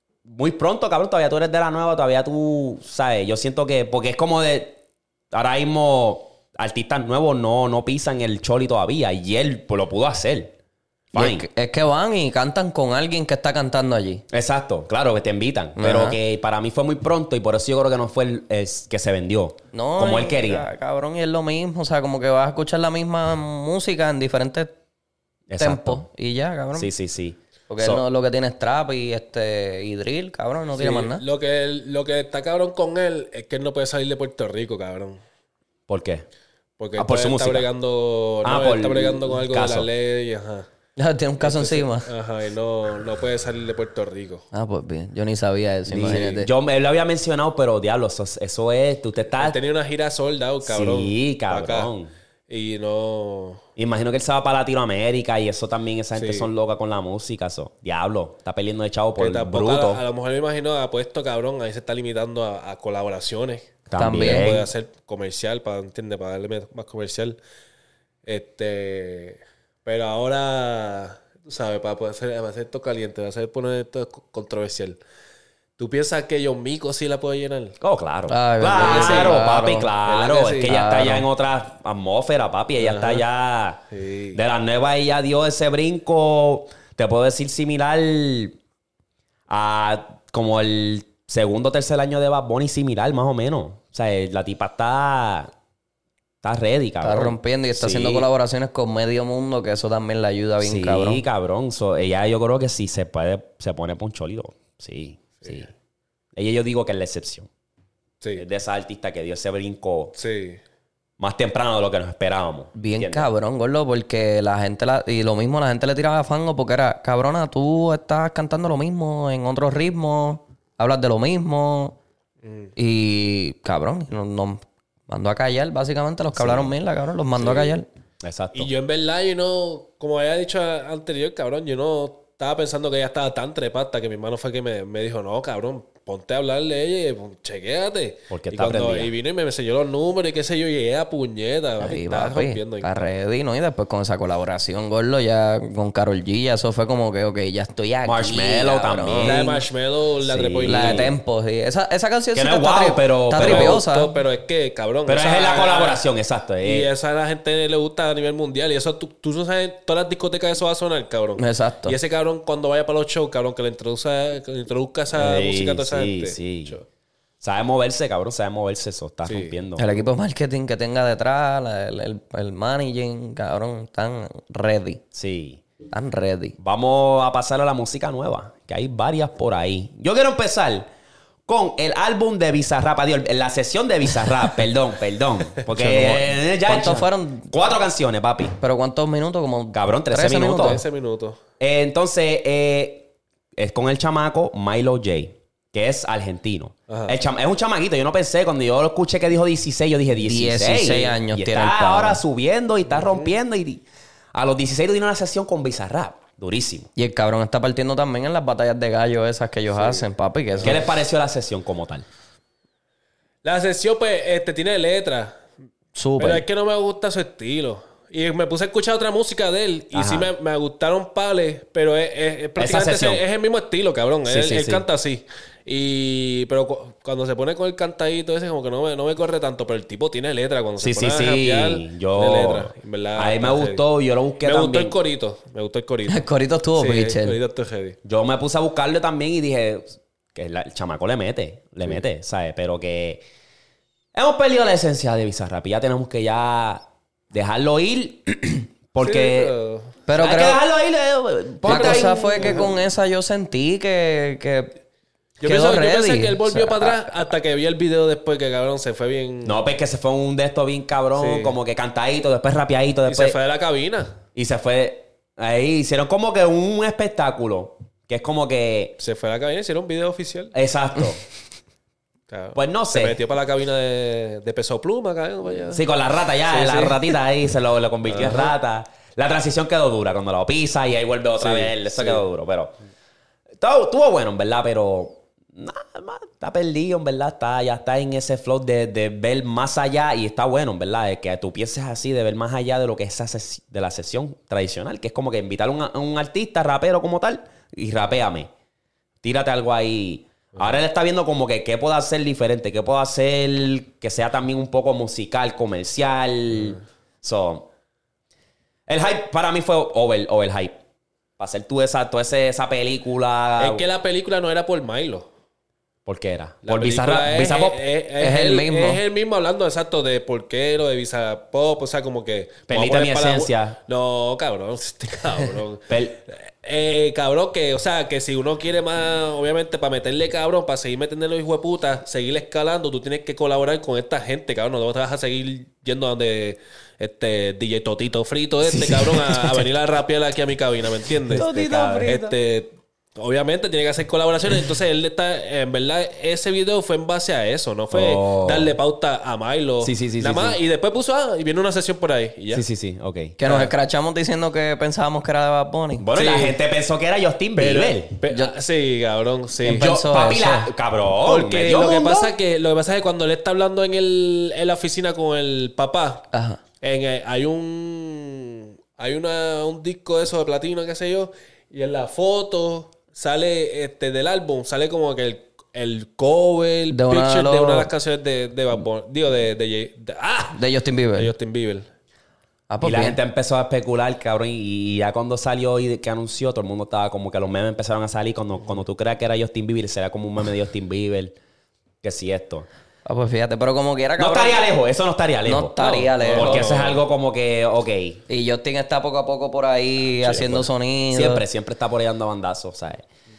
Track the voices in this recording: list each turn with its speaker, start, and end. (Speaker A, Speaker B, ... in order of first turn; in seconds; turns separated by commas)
Speaker A: 0.2-4.8, Speaker A: 5.3-10.5, Speaker A: 11.1-11.4, Speaker B: 11.1-14.2, Speaker A: 14.3-20.7, Speaker B: 15.8-16.2, Speaker B: 19.7-24.7, Speaker A: 25.5-26.1, Speaker B: 25.6-26.9, Speaker A: 26.7-28.0, Speaker B: 27.7-31.2, Speaker C: 30.7-35.2, Speaker A: 35.9-36.2, Speaker C: 36.8-40.7, Speaker A: 37.0-37.7, Speaker A: 38.4-39.9, Speaker B: 41.0-42.1, Speaker C: 41.4-44.4, Speaker B: 44.5-46.5, Speaker A: 45.9-49.6, Speaker C: 49.4-51.9, Speaker A: 50.6-52.1, Speaker C: 52.5-53.6, Speaker A: 53.8-60.0, Speaker C: 56.1-56.5, Speaker C: 59.2-67.4, Speaker A: 63.9-64.7, Speaker B: 64.0-64.5, Speaker C: 68.2-75.0, Speaker C: 75.8-77.8, Speaker A: 77.8-83.8, Speaker B: 78.3-79.9, Speaker C: 78.8-79.4, Speaker C: 80.0-80.8, Speaker B: 80.6-81.2, Speaker C: 82.8-83.2, Speaker C: 83.9-84.4, Speaker A: 84.3-88.6, Speaker A: 89.5-95.5, Speaker A: 96.4-98.3, Speaker B: 97.0-101.2, Speaker A: 100.6-105.7, Speaker C: 105.4-105.7, Speaker A: 106.3-107.5, Speaker A: 108.3-110.2, Speaker C: 110.2-110.6, Speaker A: 111.2-113.3, Speaker B: 112.7-122.0, Speaker C: 122.4-122.7, Speaker B: 122.8-127.9, Speaker A: 126.3-126.7, Speaker C: 127.4-127.8, Speaker A: 128.2-128.7, Speaker C: 128.5-143.1, Speaker A: 138.3-139.1, Speaker B: 141.8-149.6, Speaker A: 148.0-149.4, Speaker C: 149.2-151.1, Speaker A: 150.2-151.1, Speaker B: 150.6-154.1, Speaker A: 152.3-153.8, Speaker C: 153.3-156.0, Speaker A: 155.1-156.9, Speaker C: 156.6-166.8, Speaker B: 161.4-161.9, Speaker A: 165.1-166.8, Speaker A: 167.4-169.9, Speaker C: 169.2-169.6, Speaker B: 169.8-175.0, Speaker A: 175.1-175.6, Speaker B: 175.9-176.6, Speaker A: 176.6-180.9, Speaker A: 181.5-188.6, Speaker B: 185.7-187.5, Speaker B: 188.6-190.8, Speaker A: 189.7-190.8, Speaker C: 190.6-191.4, Speaker A: 191.6-206.9, Speaker C: 196.9-197.2, Speaker B: 200.2-202.2, Speaker C: 202.9-203.3, Speaker B: 206.9-210.8, Speaker C: 209.7-210.8, Speaker A: 210.6-212.0, Speaker C: 213.4-215.4, Speaker B: 215.9-216.4, Speaker C: 216.2-233.8, Speaker A: 219.9-220.3, Speaker A: 222.6-223.2, Speaker A: 224.3-224.8, Speaker A: 230.8-235.0, Speaker C: 234.4-236.2, Speaker B: 236.1-237.4, Speaker C: 236.8-238.0, Speaker A: 238.0-243.2, Speaker A: 244.1-249.5, Speaker C: 249.0-249.9, Speaker B: 250.1-250.6, Speaker A: 250.2-252.7, Speaker B: 251.6-254.7, Speaker C: 251.6-252.7, Speaker C: 255.4-259.6, Speaker B: 255.4-257.2, Speaker A: 259.4-263.4, Speaker C: 261.1-261.5, Speaker C: 263.1-264.2, Speaker A: 264.3-268.9, Speaker C: 269.0-270.5, Speaker A: 270.5-271.2, Speaker C: 272.3-275.8, Speaker A: 272.5-273.2, Speaker A: 275.7-282.7, Speaker C: 276.5-277.2, Speaker C: 278.1-278.5, Speaker C: 281.4-282.2, Speaker A: 283.6-298.5, Speaker A: 299.2-307.7, Speaker A: 308.9-310.8, Speaker A: 311.4-313.8, Speaker C: 313.6-315.3, Speaker A: 316.1-317.8, Speaker C: 316.6-352.6, Speaker B: 318.2-319.0, Speaker A: 322.7-323.8, Speaker A: 325.9-326.2, Speaker A: 341.3-342.3, Speaker B: 341.3-342.3, Speaker A: 347.9-348.7, Speaker A: 349.8-350.6, Speaker A: 352.5-353.4, Speaker B: 353.4-356.0, Speaker C: 353.4-353.7, Speaker A: 356.0-358.1, Speaker C: 356.1-356.6, Speaker C: 357.6-359.9, Speaker B: 358.3-358.5, Speaker B: 359.6-360.7, Speaker A: 359.6-362.3, Speaker C: 361.2-366.2, Speaker B: 366.3-366.6, Speaker C: 366.8-380.6, Speaker B: 376.9-377.9, Speaker B: 380.5-381.3, Speaker C: 381.1-381.9, Speaker B: 382.7-383.2, Speaker A: 382.8-391.3, Speaker A: 392.0-392.7, Speaker B: 393.1-394.6, Speaker A: 394.2-398.2, Speaker B: 395.4-396.7, Speaker C: 395.8-397.0, Speaker B: 398.3-401.4, Speaker A: 400.2-403.0